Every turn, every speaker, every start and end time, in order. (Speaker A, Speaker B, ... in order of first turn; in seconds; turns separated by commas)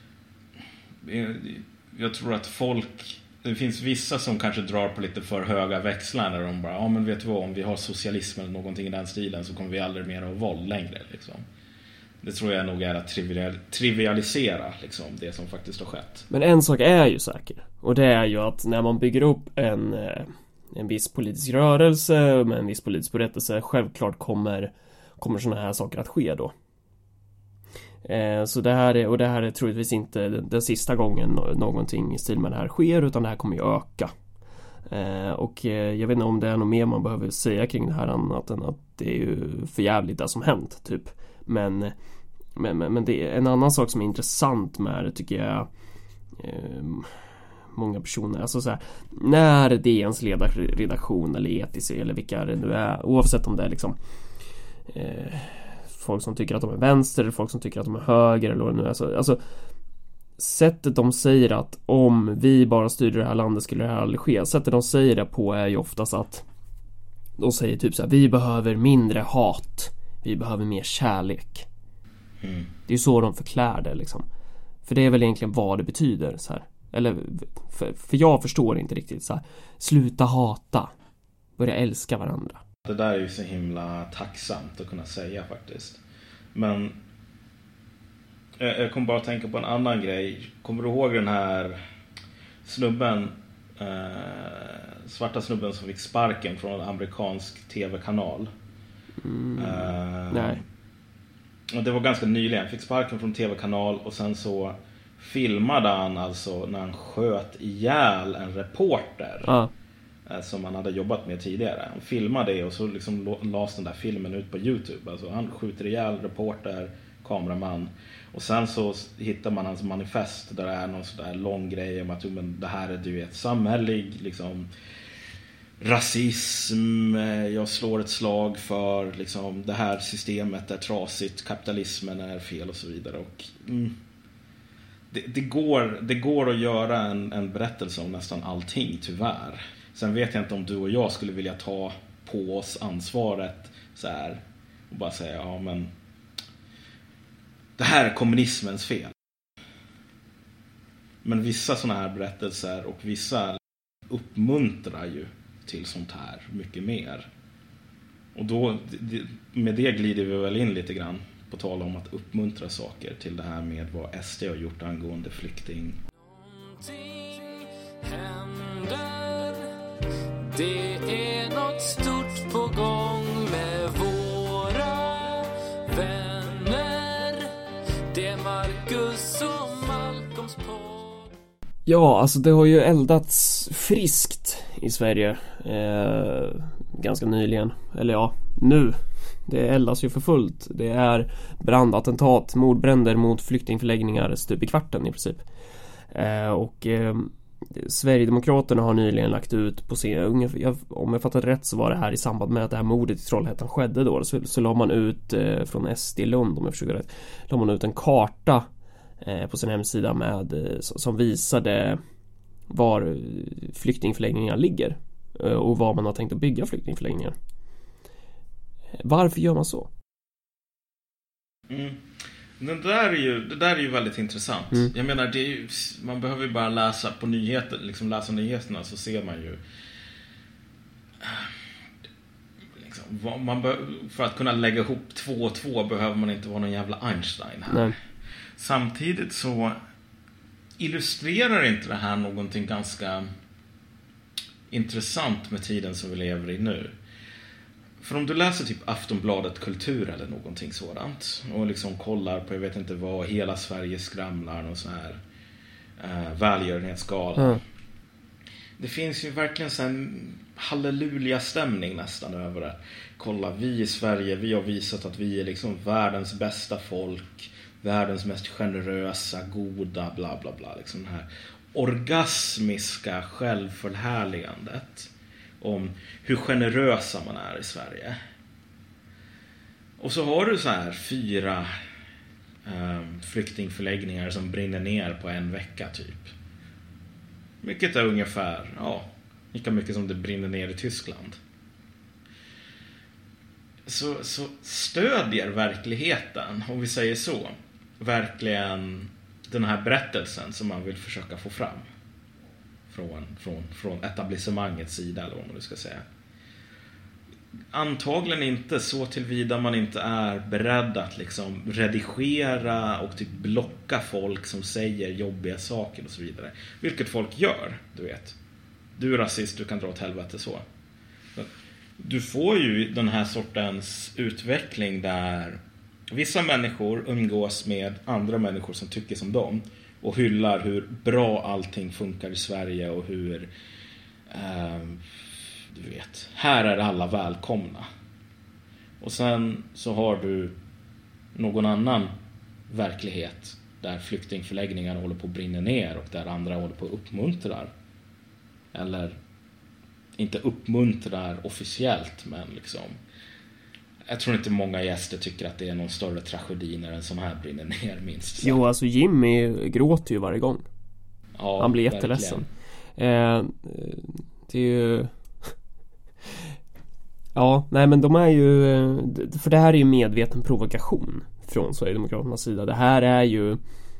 Speaker A: 1.0-11.4, Speaker A: 12.2-16.2, Speaker B: 16.3-26.5, Speaker B: 28.0-34.1, Speaker B: 34.9-41.9, Speaker B: 42.5-45.7, Speaker B: 46.4-47.2, Speaker B: 47.7-54.0, Speaker B: 54.9-59.4, Speaker B: 60.4-66.4, Speaker B: 67.4-71.7, Speaker A: 72.4-72.7, Speaker B: 72.9-74.2, Speaker B: 74.8-80.9, Speaker B: 81.6-82.6, Speaker A: 82.9-86.0, Speaker A: 86.5-87.0, Speaker A: 88.6-91.8, Speaker A: 92.6-98.5, Speaker B: 99.2-100.6, Speaker A: 99.6-100.6, Speaker A: 101.7-109.5, Speaker B: 109.5-109.7, Speaker A: 110.3-124.7, Speaker A: 125.8-134.0, Speaker A: 135.1-145.9, Speaker A: 147.8-149.1, Speaker A: 151.2-157.3, Speaker A: 158.3-166.0, Speaker C: 166.1-169.7, Speaker C: 170.5-177.5, Speaker C: 178.1-181.3, Speaker B: 181.8-195.4, Speaker B: 196.1-208.7, Speaker B: 209.2-212.0, Speaker B: 212.7-217.3, Speaker B: 219.0-219.9, Speaker A: 221.7-229.6, Speaker A: 231.2-231.5, Speaker A: 232.7-237.9, Speaker B: 237.7-237.9, Speaker A: 238.6-239.8, Speaker A: 240.8-243.3, Speaker A: 244.7-246.9, Speaker A: 248.0-255.2, Speaker A: 256.0-257.6, Speaker A: 258.8-278.1, Speaker A: 280.0-281.7, Speaker A: 282.6-286.3, Speaker A: 287.6-291.4, Speaker A: 293.9-301.9, Speaker A: 302.9-306.0, Speaker A: 307.7-318.4, Speaker A: 319.0-320.6, Speaker A: 321.3-333.5, Speaker A: 334.3-337.9, Speaker A: 339.0-340.6, Speaker A: 341.3-342.1, Speaker A: 342.7-347.7, Speaker A: 348.7-349.2, Speaker A: 350.2-353.0, Speaker A: 354.1-358.6, Speaker B: 358.4-360.6, Speaker A: 361.4-362.5, Speaker B: 361.6-362.4, Speaker B: 363.0-365.5, Speaker B: 367.4-373.6